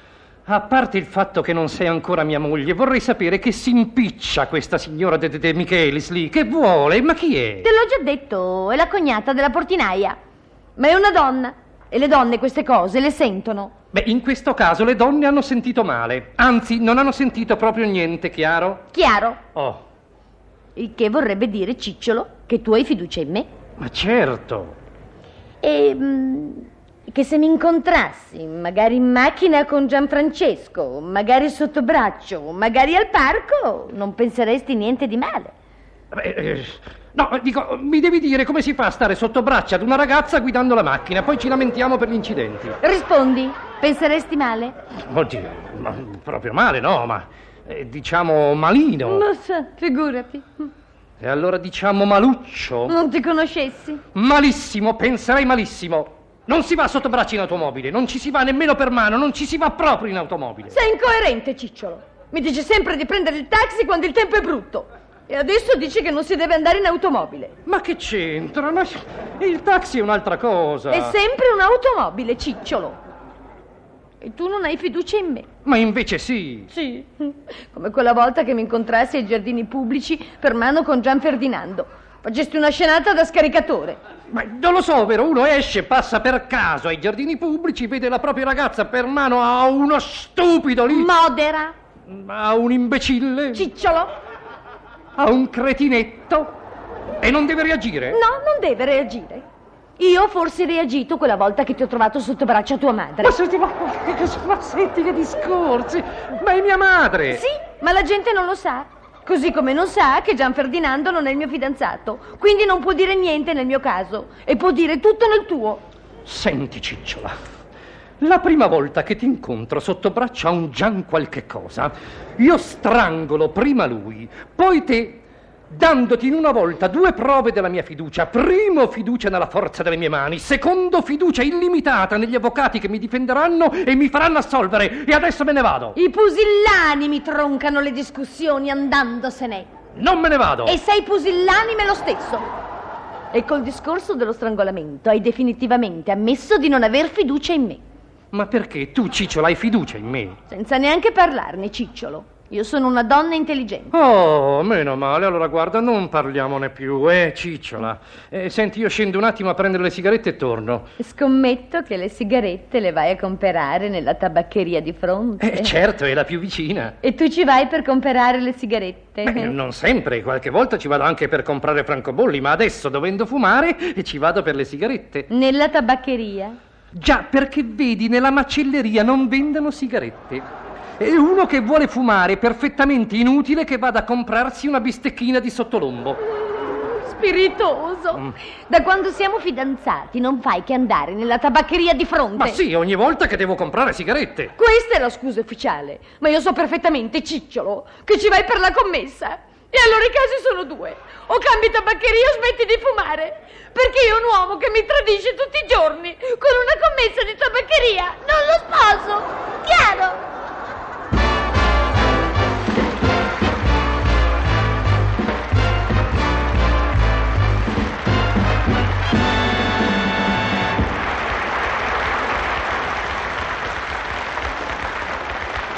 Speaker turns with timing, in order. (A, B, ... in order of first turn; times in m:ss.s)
0:00.5-0:07.7 A
0:07.6-0:10.2 B
0:10.8-0:13.7 B
0:13.9-0:18.8 A
0:18.9-0:19.4 B
0:19.5-0:19.8 A
0:20.7-0:23.5 B
0:23.8-0:24.8 A
0:25.6-0:35.5 B
0:36.1-0:42.8 A
0:42.8-0:44.8 B
0:45.0-0:49.3 A
0:49.0-0:50.7 B
0:51.2-0:53.0 A
0:52.9-0:54.0 B
0:54.1-1:00.8 A
1:00.7-1:07.5 B
1:07.6-1:11.2 A
1:10.9-1:13.0 B
1:14.2-1:15.5 B
1:15.6-1:16.7 A
1:16.7-1:24.0 B
1:24.3-1:31.1 A
1:30.9-1:31.7 B
1:32.1-1:33.7 A
1:33.5-1:34.1 B
1:35.2-1:36.5 A
1:37.2-1:38.2 A
1:38.1-1:39.4 B
1:40.0-1:43.3 B
1:43.2-1:47.4 A
1:47.3-1:55.8 B
1:56.2-1:57.3 A
1:58.2-2:16.0 A
2:15.9-2:19.7 B
2:19.9-2:20.8 A
2:20.6-2:22.5 B
2:23.3-2:27.8 B
2:28.3-2:30.4 A
2:30.5-2:33.9 B
2:33.9-2:40.9 A
2:41.0-2:45.8 B
2:45.4-2:47.0 A
2:47.0-2:49.5 B
2:49.2-2:55.3 A
2:55.3-2:56.6 B
2:56.9-3:00.4 A
3:01.0-3:06.2 A
3:06.6-3:12.6 B
3:12.4-3:14.5 A
3:14.6-3:30.2 B